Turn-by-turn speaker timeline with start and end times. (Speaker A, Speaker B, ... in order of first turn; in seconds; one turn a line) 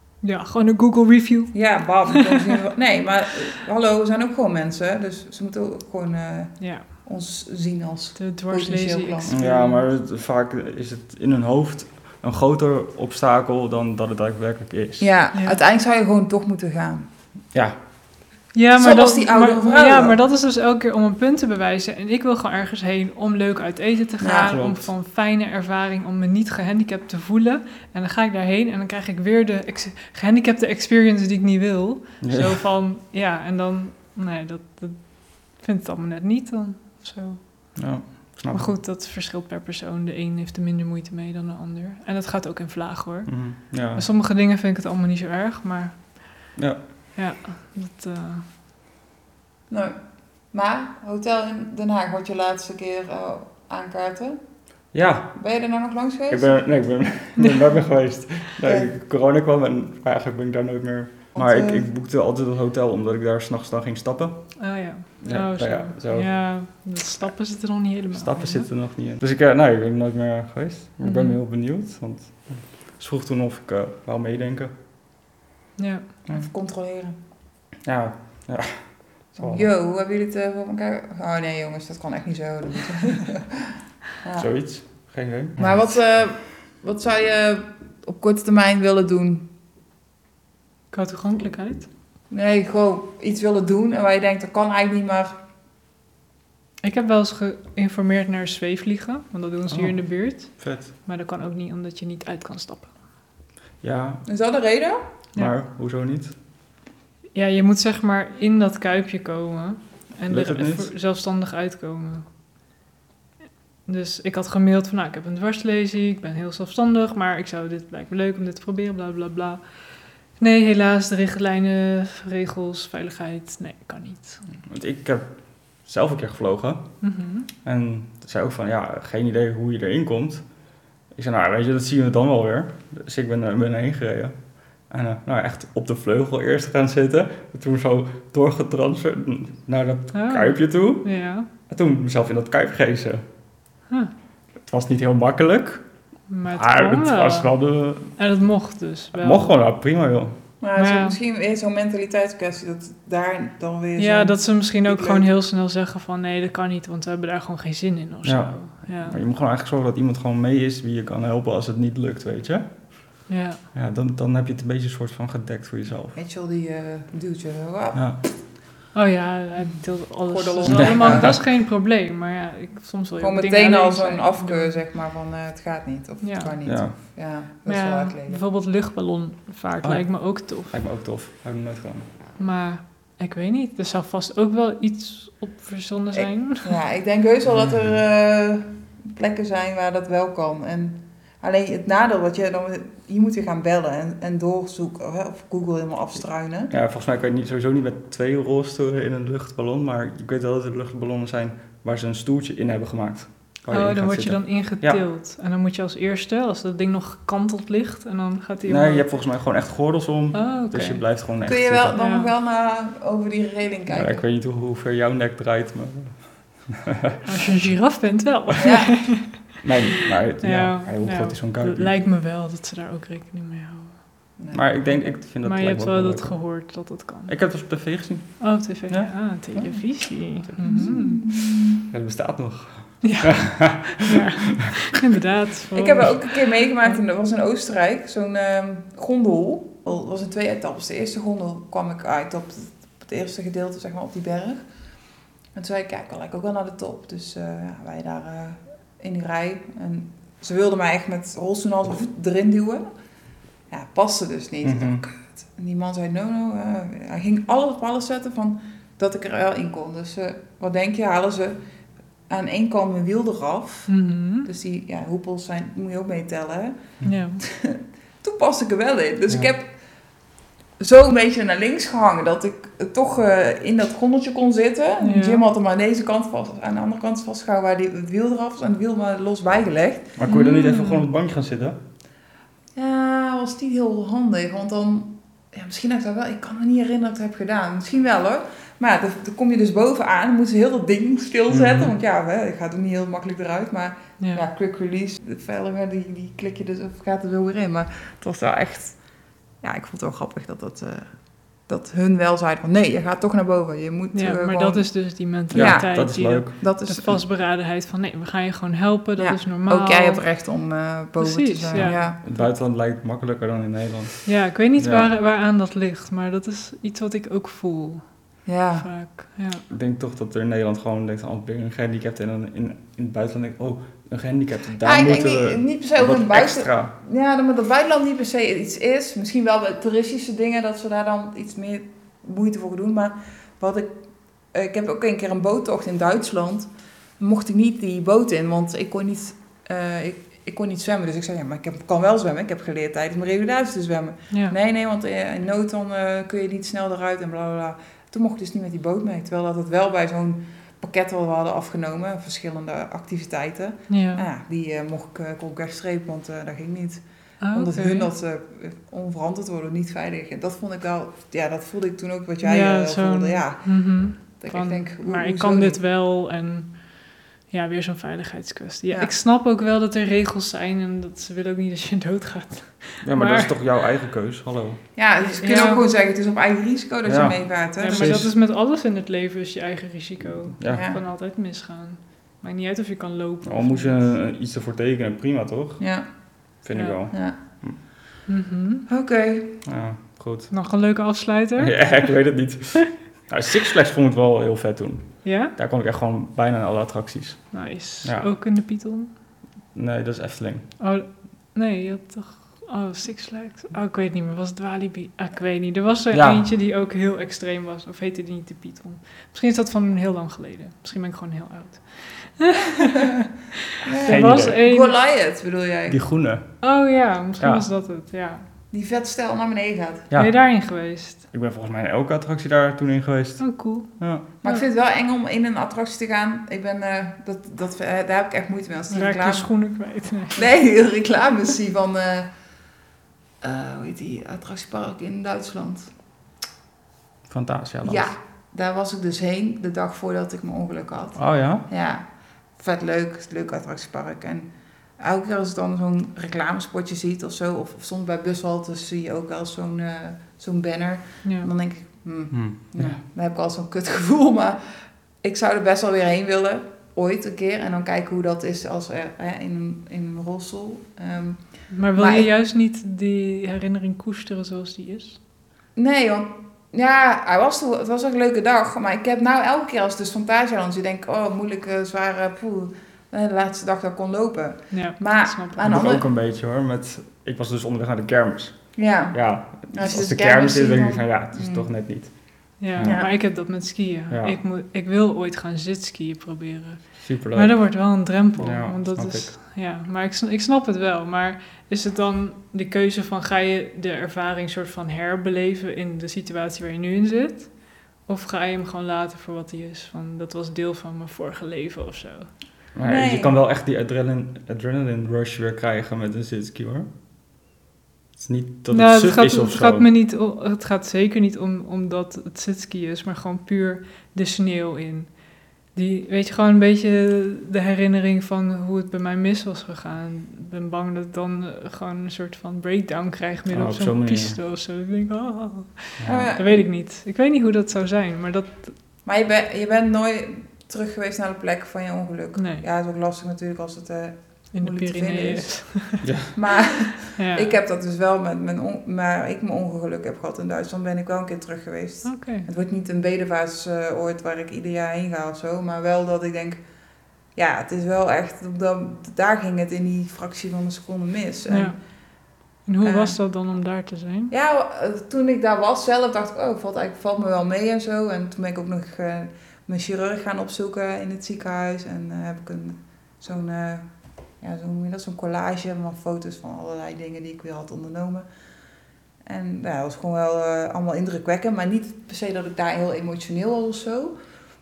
Speaker A: 0.2-2.4
Speaker B: 1.5-9.4
Speaker A: 6.6-6.9
Speaker A: 8.2-9.9
Speaker C: 9.3-15.1
Speaker B: 15.0-17.1
Speaker C: 17.5-18.1
Speaker A: 18.5-46.5
Speaker B: 18.8-20.2
Speaker B: 24.2-24.5
Speaker C: 24.5-24.9
Speaker C: 32.2-32.6
Speaker C: 37.8-38.8
Speaker C: 43.3-44.1
Speaker C: 46.6-46.9
Speaker A: 47.1-48.5
Speaker B: 49.7-54.4
Speaker C: 54.9-55.4
Speaker B: 55.3-56.7
Speaker C: 56.3-66.9
Speaker B: 58.6-58.9
Speaker B: 61.4-61.9
Speaker A: 64.6-68.7
Speaker C: 68.1-74.7
Speaker A: 71.0-71.4
Speaker A: 75.8-76.1
Speaker B: 76.3-77.2
Speaker C: 77.8-79.7
Speaker B: 79.4-84.5
Speaker C: 84.4-85.8
Speaker B: 85.6-89.5
Speaker A: 90.9-91.9
Speaker B: 92.3-95.4
Speaker A: 96.8-103.0
Speaker C: 99.7-100.9
Speaker C: 103.8-104.3
Speaker B: 104.3-105.0
Speaker C: 105.3-106.4
Speaker A: 107.3-112.3
Speaker C: 110.3-110.9
Speaker A: 113.9-119.6
Speaker A: 120.4-124.4
Speaker C: 124.6-127.1
Speaker A: 127.0-127.5
Speaker C: 127.6-143.3
Speaker A: 140.1-141.5
Speaker C: 144.7-145.8
Speaker A: 146.3-147.6
Speaker C: 146.5-148.2
Speaker A: 148.1-149.5
Speaker C: 149.1-150.4
Speaker B: 150.6-155.3
Speaker A: 150.8-151.2
Speaker A: 154.0-159.2
Speaker C: 158.2-166.2
Speaker A: 163.3-163.6
Speaker B: 166.2-168.1
Speaker C: 167.9-168.2
Speaker A: 168.9-174.7
Speaker B: 170.3-171.4
Speaker C: 170.7-171.4
Speaker B: 173.2-178.4
Speaker A: 176.2-176.6
Speaker C: 176.7-176.9
Speaker A: 177.7-180.8
Speaker C: 179.8-182.1
Speaker A: 182.4-186.8
Speaker B: 186.1-196.7
Speaker C: 196.7-205.0
Speaker A: 203.7-209.1
Speaker C: 208.7-212.0
Speaker A: 210.3-211.1
Speaker B: 211.4-214.2
Speaker A: 212.0-212.3
Speaker C: 213.9-217.2
Speaker A: 217.2-219.6
Speaker B: 218.6-219.1
Speaker C: 219.6-221.9
Speaker A: 220.4-224.0
Speaker B: 224.4-225.1
Speaker C: 224.5-229.3
Speaker A: 225.4-227.4
Speaker A: 228.4-231.2
Speaker B: 229.6-231.8
Speaker C: 230.5-230.9
Speaker C: 231.8-234.2
Speaker A: 233.0-236.3
Speaker B: 235.8-244.7
Speaker B: 245.6-252.9
Speaker B: 253.7-261.6
Speaker C: 254.6-255.0
Speaker B: 262.3-269.8
Speaker A: 263.9-264.5
Speaker A: 267.0-267.4
Speaker B: 270.8-280.2
Speaker A: 275.0-275.4
Speaker C: 280.2-281.8
Speaker A: 280.3-281.0
Speaker B: 282.8-307.2
Speaker C: 291.5-291.9
Speaker A: 294.2-294.4
Speaker A: 304.1-310.3
Speaker C: 305.5-306.6
Speaker B: 309.2-312.2
Speaker A: 311.2-312.4
Speaker C: 311.7-315.1
Speaker A: 314.3-318.1
Speaker B: 318.5-318.9
Speaker A: 318.8-319.6
Speaker C: 319.7-326.9
Speaker B: 324.8-365.8
Speaker A: 344.3-344.6
Speaker A: 353.9-354.2
Speaker A: 357.4-358.1
Speaker A: 362.4-373.5
Speaker C: 373.0-374.9
Speaker B: 374.9-378.2
Speaker A: 375.2-375.8
Speaker C: 377.1-378.3
Speaker A: 377.8-384.1
Speaker C: 380.6-380.9
Speaker B: 380.6-381.0
Speaker C: 383.4-387.8
Speaker B: 385.8-386.1
Speaker A: 386.7-387.0
Speaker B: 387.1-387.4
Speaker A: 388.3-388.9
Speaker B: 388.9-389.6
Speaker C: 389.6-390.5
Speaker A: 390.5-392.1
Speaker C: 391.6-398.3
Speaker A: 395.2-395.6
Speaker A: 397.5-399.1
Speaker C: 399.7-400.8
Speaker A: 400.8-413.1
Speaker C: 406.1-406.5
Speaker B: 413.8-416.0
Speaker A: 414.0-415.0
Speaker C: 414.0-414.6
Speaker C: 415.9-416.8
Speaker A: 416.6-418.5
Speaker C: 417.4-417.7
Speaker B: 418.7-420.1
Speaker C: 420.1-424.3
Speaker A: 420.1-421.2
Speaker A: 423.4-424.7
Speaker B: 424.4-429.6
Speaker A: 428.9-430.5
Speaker B: 430.4-432.3
Speaker B: 433.4-435.9
Speaker C: 437.3-438.1
Speaker B: 437.8-462.3
Speaker C: 441.2-441.6
Speaker A: 451.2-451.5
Speaker C: 452.3-453.0
Speaker A: 461.7-465.2
Speaker B: 465.8-476.0
Speaker A: 474.7-475.7
Speaker C: 475.6-483.5
Speaker B: 478.8-481.7
Speaker A: 482.6-502.3
Speaker B: 482.8-483.1
Speaker C: 484.1-484.4
Speaker C: 487.0-489.3
Speaker C: 502.8-506.9
Speaker B: 502.8-503.4
Speaker C: 508.2-509.9
Speaker A: 508.7-528.8
Speaker C: 523.5-524.4
Speaker C: 526.0-526.3
Speaker B: 526.0-526.7
Speaker B: 529.0-546.6
Speaker A: 532.4-532.6
Speaker A: 534.5-536.3
Speaker C: 536.0-536.4
Speaker A: 537.1-537.5
Speaker A: 542.0-542.5
Speaker B: 547.3-551.8
Speaker A: 551.5-554.3
Speaker B: 552.8-553.2
Speaker B: 554.3-568.3
Speaker B: 569.2-574.2